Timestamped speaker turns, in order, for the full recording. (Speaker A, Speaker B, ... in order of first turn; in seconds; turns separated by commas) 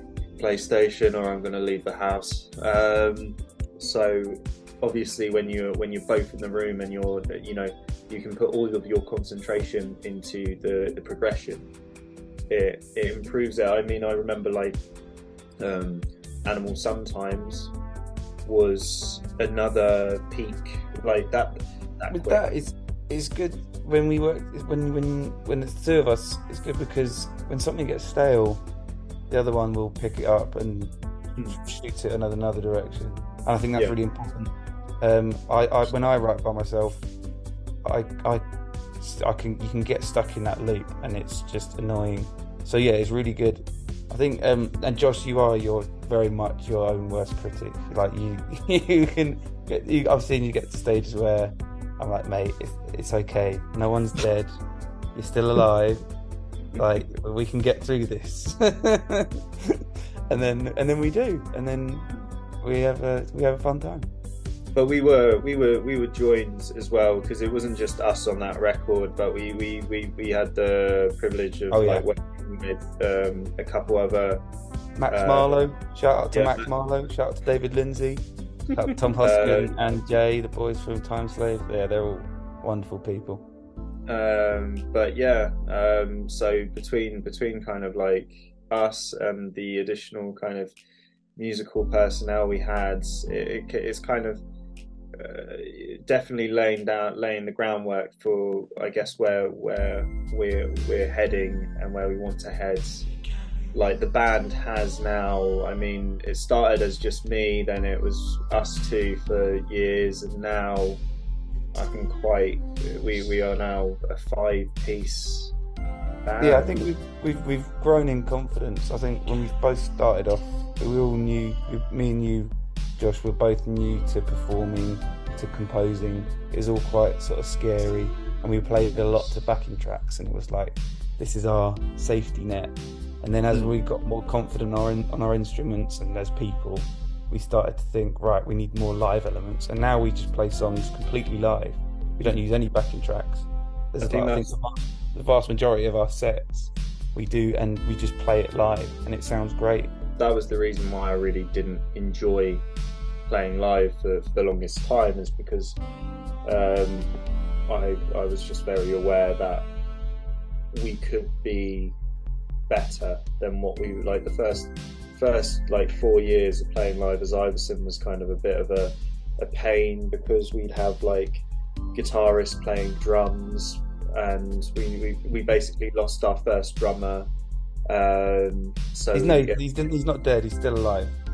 Speaker A: 0.4-11.7, Speaker A: 12.5-14.8, Speaker A: 15.6-17.7, Speaker A: 18.4-22.4, Speaker B: 22.1-28.6, Speaker B: 29.3-30.9, Speaker B: 31.6-37.0, Speaker B: 37.8-38.4, Speaker B: 39.0-54.5, Speaker B: 55.1-56.0, Speaker B: 56.8-62.1, Speaker B: 62.6-64.1, Speaker A: 64.7-74.4, Speaker B: 71.7-72.1, Speaker B: 75.0-83.4, Speaker A: 75.1-75.7, Speaker A: 76.3-76.7, Speaker A: 79.2-80.0, Speaker A: 84.1-90.7, Speaker A: 91.4-94.4, Speaker A: 95.2-103.0, Speaker A: 103.7-111.0, Speaker A: 111.7-115.5, Speaker A: 116.2-116.9, Speaker B: 116.4-149.9, Speaker A: 144.0-144.5, Speaker A: 150.2-152.6, Speaker A: 153.3-155.8, Speaker A: 156.4-157.1, Speaker A: 157.7-159.7, Speaker A: 160.7-161.9, Speaker A: 162.7-171.4, Speaker A: 171.9-177.3, Speaker A: 177.9-179.6, Speaker B: 179.1-181.1